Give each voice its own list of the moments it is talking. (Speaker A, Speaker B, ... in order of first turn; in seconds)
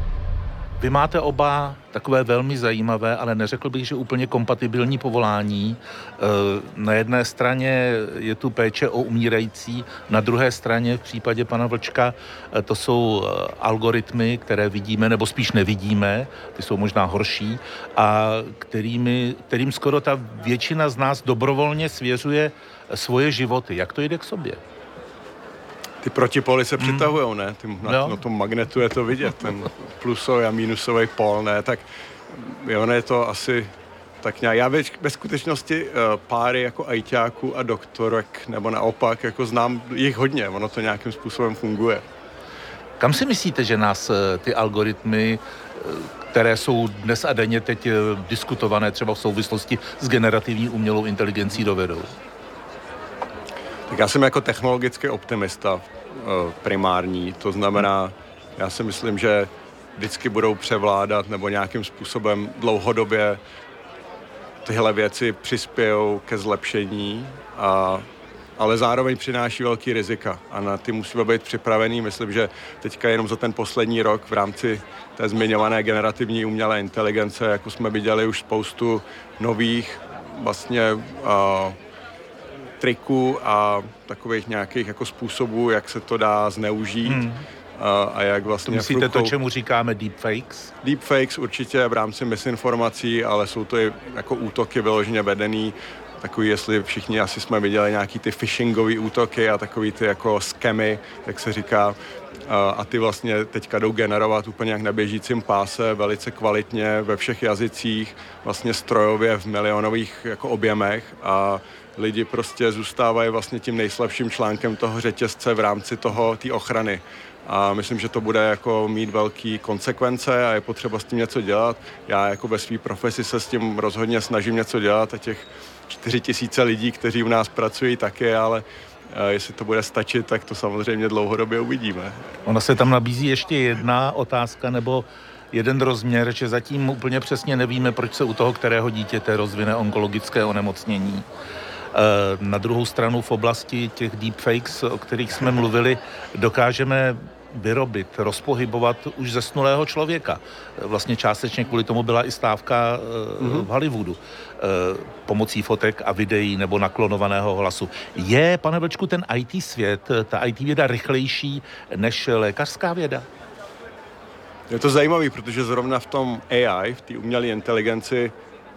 Speaker A: 0.8-24.6, 26.8-27.1, 27.9-28.2, 43.0-52.1, 87.0-87.4, 88.7-90.7, 132.5-141.3, 141.9-163.3
Speaker B: 26.0-33.7, 34.2-42.0, 53.9-63.4, 64.6-68.1, 68.6-81.8, 82.8-87.2, 87.8-89.3, 90.8-132.3, 153.4-153.7, 164.7-168.3